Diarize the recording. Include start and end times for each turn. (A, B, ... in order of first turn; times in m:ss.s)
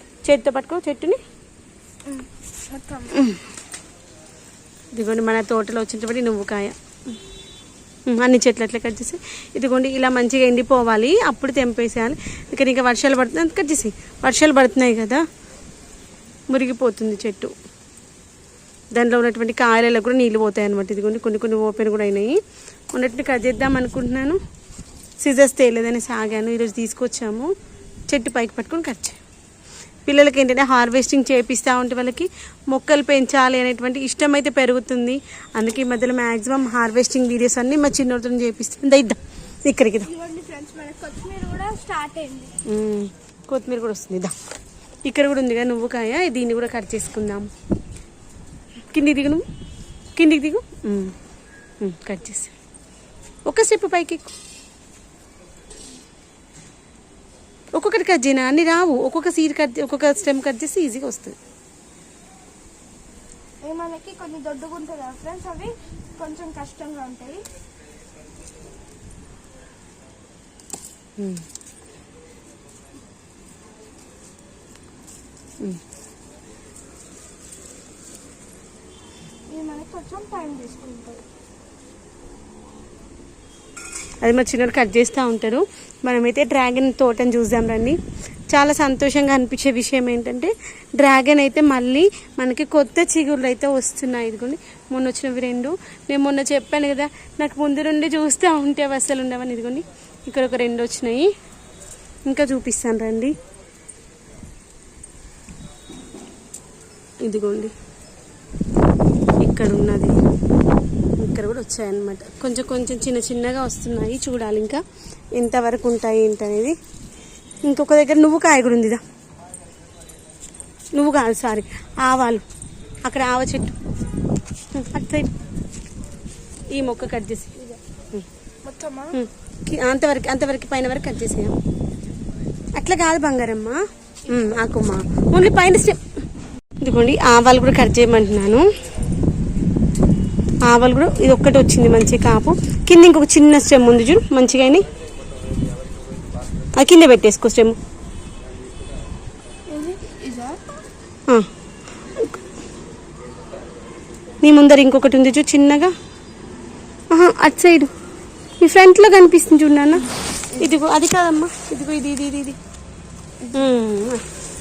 0:00.2-0:01.2 A
0:02.1-0:03.4 B
0:04.9-0:06.8 A
0:08.1-0:15.2 A
0:16.5-0:17.5 A
0:18.9-0:22.4 A
0:22.9-0:24.4 A
0:25.2-0:27.5 A
0:28.1-0:29.2 A
0:30.1-0:40.1 A
0:40.0-0:42.6 B
0:42.6-0:44.3 A
0:45.0-0:47.5 A
0:48.9-0:49.4 A
0:50.2-0:51.2 A
0:51.8-0:52.5 A
0:53.5-0:54.3 A
0:57.7-1:01.4 A
1:03.6-1:07.4 B
1:11.2-1:11.4 A
1:19.5-1:21.3 B
1:24.2-1:28.0 A
1:28.5-1:41.3 A
1:42.3-1:43.3 A
1:47.2-1:47.7 A
1:49.4-1:50.2 A
1:51.2-1:54.8 A
1:55.4-1:56.8 A
1:57.6-1:59.0 A
2:01.0-2:02.4 A
2:03.0-2:03.8 A
2:04.7-2:05.3 A
2:06.7-2:08.2 A
2:08.6-2:09.2 B
2:09.1-2:11.6 A
2:12.8-2:16.0 A
2:16.8-2:18.7 A
2:20.6-2:24.9 A
2:26.6-2:27.8 A
2:29.7-2:30.6 B
2:34.4-2:35.9 A
2:37.1-2:37.9 A
2:38.6-2:42.6 A
2:43.5-2:44.3 A